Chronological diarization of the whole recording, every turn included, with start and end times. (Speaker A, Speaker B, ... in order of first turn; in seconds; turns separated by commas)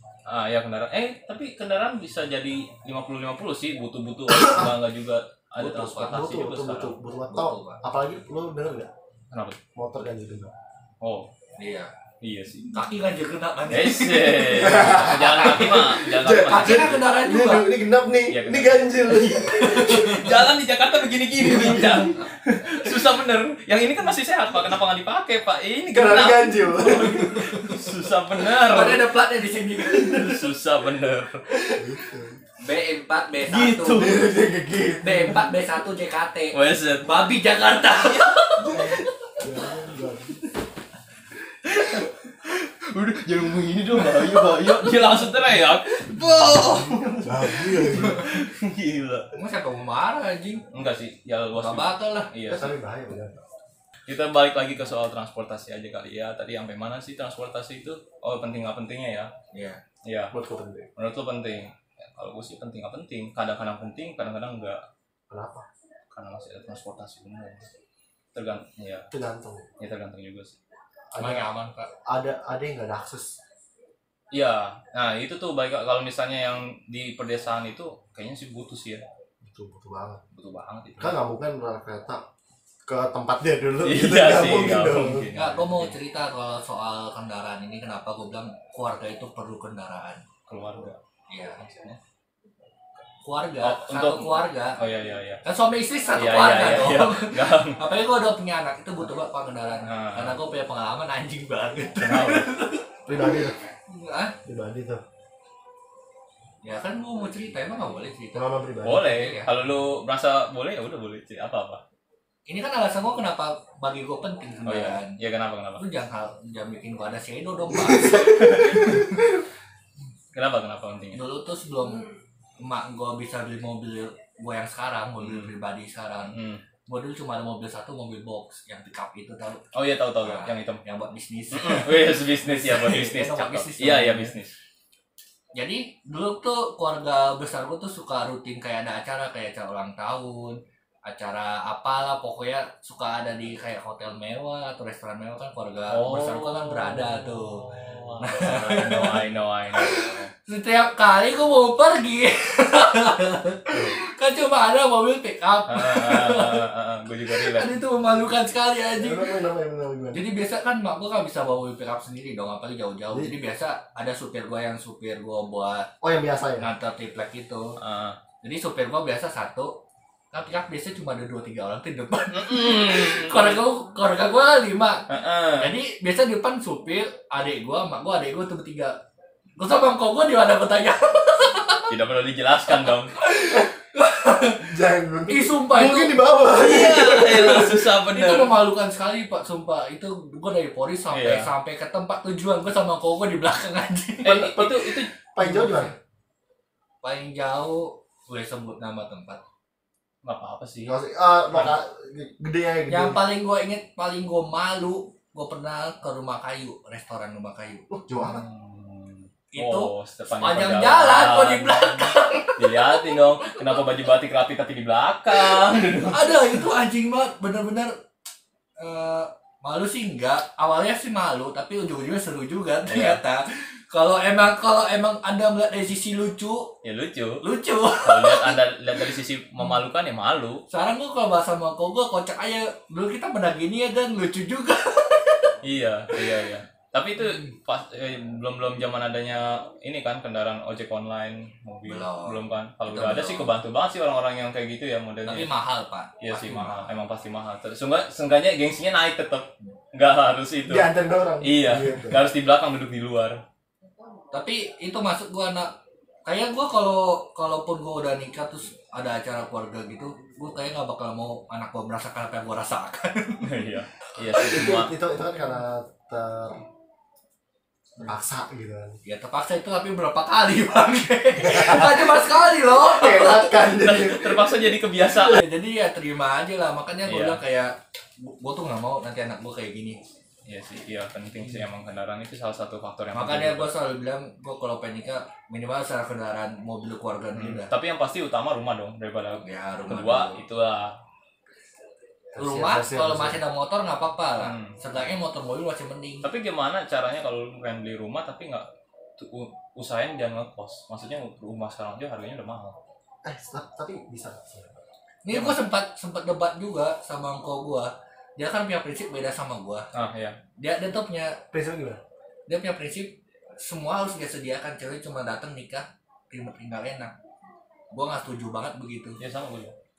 Speaker A: 0.2-7.0, Speaker B: 5.6-6.1, Speaker C: 5.6-8.9, Speaker B: 7.3-7.8, Speaker A: 9.3-9.6, Speaker C: 9.8-10.5, Speaker A: 11.0-11.3, Speaker B: 11.6-11.9, Speaker A: 12.2-12.9, Speaker B: 12.7-17.7, Speaker A: 13.7-17.0, Speaker C: 14.5-20.4, Speaker A: 18.3-29.1, Speaker B: 19.4-20.4, Speaker C: 21.4-22.2, Speaker C: 25.9-27.5, Speaker B: 27.0-27.8, Speaker B: 28.4-30.5, Speaker A: 29.8-31.4, Speaker C: 31.7-32.4, Speaker B: 32.6-34.2, Speaker A: 33.5-34.3, Speaker C: 33.9-35.5, Speaker B: 35.0-39.4, Speaker A: 36.5-39.0, Speaker C: 38.6-40.4, Speaker A: 41.6-49.3, Speaker B: 44.1-45.2, Speaker B: 45.9-47.0, Speaker C: 46.6-48.4, Speaker B: 47.8-48.4, Speaker B: 49.3-50.6, Speaker A: 50.7-52.8, Speaker B: 51.5-52.3, Speaker C: 52.5-53.4, Speaker A: 54.1-59.3, Speaker B: 59.5-59.8, Speaker A: 60.0-60.3, Speaker C: 60.3-60.9, Speaker A: 61.0-64.8, Speaker C: 65.3-65.7, Speaker A: 66.1-67.7, Speaker A: 68.3-69.1, Speaker C: 69.1-69.7, Speaker A: 69.8-70.6, Speaker C: 71.1-71.5, Speaker B: 71.2-71.9, Speaker C: 72.0-73.4, Speaker A: 74.3-79.0, Speaker C: 79.4-80.2, Speaker A: 80.3-81.2, Speaker C: 81.0-82.2, Speaker C: 82.9-85.3, Speaker A: 83.8-85.9, Speaker B: 85.3-90.2, Speaker A: 90.5-91.0, Speaker B: 91.3-91.6, Speaker A: 91.6-92.0, Speaker B: 93.2-94.8, Speaker A: 93.6-95.4, Speaker B: 95.4-104.4, Speaker A: 96.1-97.8, Speaker A: 99.8-100.4, Speaker A: 102.0-102.5, Speaker C: 103.0-103.5, Speaker C: 104.4-105.0, Speaker B: 106.6-109.5, Speaker C: 108.3-109.2, Speaker A: 108.8-111.8, Speaker B: 112.5-115.2, Speaker A: 114.6-115.8, Speaker B: 115.8-119.3, Speaker C: 118.1-119.2, Speaker A: 118.2-119.1, Speaker A: 120.3-121.2, Speaker B: 121.1-126.3, Speaker A: 125.2-125.5, Speaker A: 126.3-126.6, Speaker B: 126.9-129.6, Speaker A: 129.7-130.8, Speaker B: 130.2-134.3, Speaker A: 131.5-134.5, Speaker B: 135.5-156.6, Speaker A: 145.9-150.3, Speaker A: 155.7-157.8, Speaker B: 157.3-159.3, Speaker C: 159.0-160.2, Speaker B: 160.1-165.9, Speaker C: 166.0-166.7, Speaker B: 166.6-167.8, Speaker A: 167.8-168.2, Speaker B: 168.4-169.8, Speaker B: 170.3-179.0, Speaker A: 172.3-173.6, Speaker A: 175.1-175.7, Speaker B: 179.6-181.9, Speaker A: 181.9-183.2, Speaker B: 182.7-184.7, Speaker C: 184.6-187.9, Speaker B: 185.3-186.3, Speaker A: 186.5-188.6, Speaker B: 187.2-194.5, Speaker A: 191.1-191.5, Speaker A: 194.2-195.1, Speaker C: 194.3-195.9, Speaker B: 195.4-195.9, Speaker B: 197.0-199.4, Speaker A: 200.2-200.9, Speaker C: 200.8-203.2, Speaker B: 202.9-207.9, Speaker C: 207.9-208.4, Speaker A: 208.1-216.7, Speaker B: 209.5-213.8, Speaker B: 215.3-217.9, Speaker B: 218.8-226.7, Speaker A: 222.9-223.2, Speaker A: 226.8-227.4, Speaker B: 227.4-229.1, Speaker A: 228.0-230.6, Speaker B: 230.7-235.6, Speaker A: 235.6-245.5, Speaker B: 236.1-236.4, Speaker B: 241.8-243.5, Speaker B: 245.2-246.9, Speaker A: 246.2-250.9, Speaker C: 250.7-252.2, Speaker A: 251.4-253.4, Speaker B: 254.3-255.7, Speaker B: 256.2-263.6, Speaker A: 263.4-264.9, Speaker B: 264.2-264.7, Speaker C: 264.4-266.6, Speaker C: 268.0-269.0, Speaker B: 269.0-273.6, Speaker C: 271.4-274.5, Speaker A: 273.5-275.4, Speaker B: 275.2-280.0, Speaker A: 277.1-277.4, Speaker A: 280.4-283.7, Speaker B: 283.1-287.7, Speaker A: 287.4-290.9, Speaker B: 289.4-290.4, Speaker C: 292.3-293.4, Speaker B: 292.4-296.3, Speaker A: 294.4-294.8, Speaker A: 296.2-298.6, Speaker A: 299.2-302.8, Speaker C: 303.2-304.8, Speaker B: 305.2-309.9, Speaker A: 305.3-305.6, Speaker A: 309.9-310.4, Speaker B: 310.6-311.4, Speaker C: 311.5-312.0, Speaker B: 312.5-317.1, Speaker B: 317.9-319.2, Speaker A: 319.2-319.7